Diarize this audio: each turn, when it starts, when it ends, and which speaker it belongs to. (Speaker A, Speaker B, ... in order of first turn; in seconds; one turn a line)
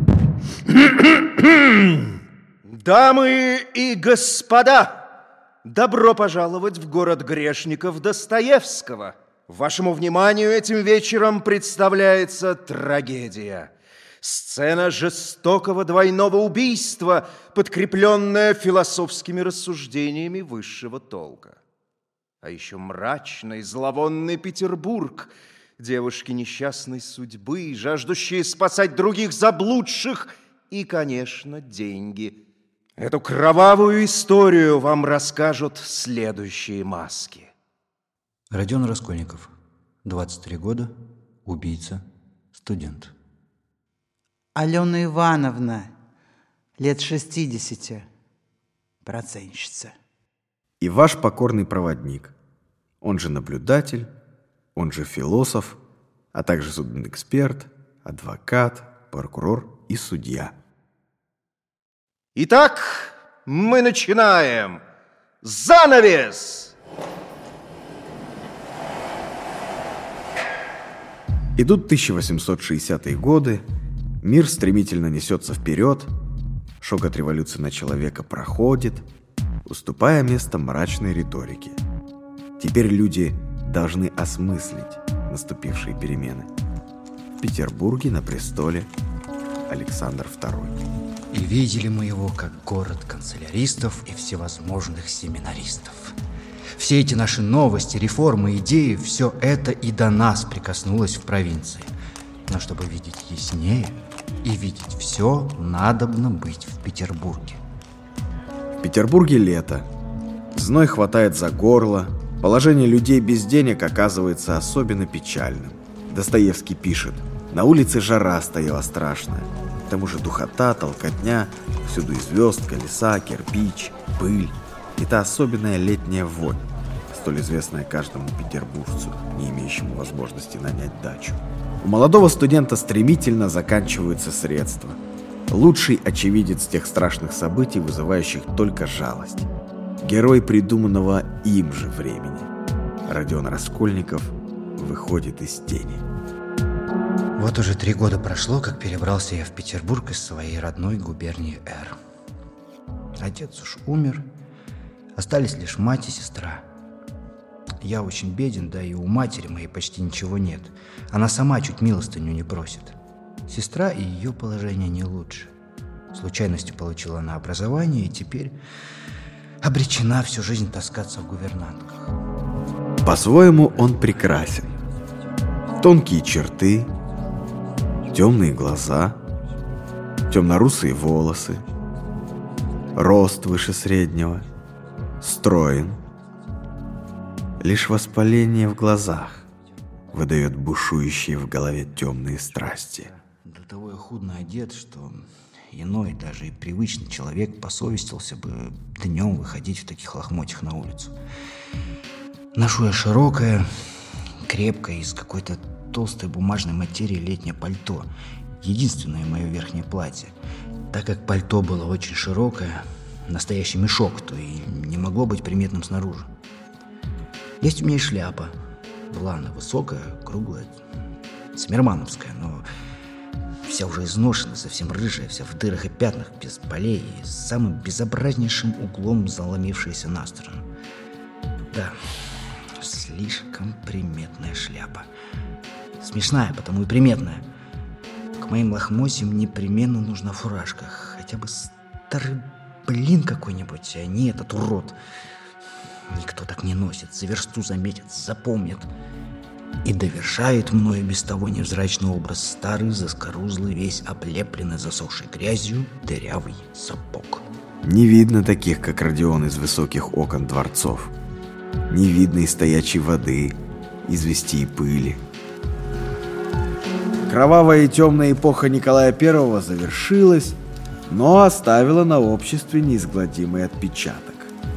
Speaker A: 0.7-5.1
Speaker A: 5.7-21.6
Speaker A: 22.4-32.4
Speaker A: 33.0-37.5
Speaker B: 38.5-39.5
Speaker B: 40.0-43.1
Speaker C: 44.5-45.9
Speaker C: 46.8-48.1
Speaker C: 49.0-49.9
Speaker D: 50.8-52.3
Speaker D: 53.0-54.1
Speaker D: 54.8-55.8
Speaker D: 56.3-60.5
Speaker A: 62.4-64.8
Speaker A: 65.4-66.7
Speaker D: 71.5-73.7
Speaker D: 74.2-76.1
Speaker D: 76.8-79.1
Speaker D: 79.7-81.8
Speaker D: 82.6-86.5
Speaker D: 87.4-88.9
Speaker D: 89.7-90.8
Speaker B: 91.3-96.2
Speaker B: 96.7-101.9
Speaker B: 102.5-107.6
Speaker D: 108.8-109.9
Speaker D: 110.5-139.5
Speaker D: 140.0-142.5
Speaker D: 143.1-146.1
Speaker B: 147.4-152.0
Speaker B: 153.2-154.3
Speaker B: 155.2-156.7
Speaker B: 157.8-163.0
Speaker B: 163.5-165.5
Speaker B: 166.1-168.6
Speaker B: 169.6-172.2
Speaker D: 173.0-174.7
Speaker D: 175.8-176.9
Speaker D: 178.1-179.2
Speaker D: 180.3-181.7
Speaker D: 182.9-184.4
Speaker D: 185.2-186.0
Speaker D: 187.6-189.5
Speaker D: 190.1-193.1
Speaker B: 193.1-201.1
Speaker B: 202.6-203.7
Speaker B: 204.4-208.1
Speaker B: 208.6-210.3
Speaker B: 210.9-216.3
Speaker B: 217.6-218.5
Speaker B: 219.1-220.8
Speaker B: 221.6-222.6
Speaker B: 223.7-230.7
Speaker B: 231.7-235.1
Speaker B: 236.0-237.4
Speaker B: 238.4-245.0
Speaker B: 246.1-248.9
Speaker B: 249.8-257.4
Speaker D: 257.8-261.1
Speaker D: 261.9-265.2
Speaker D: 267.2-274.5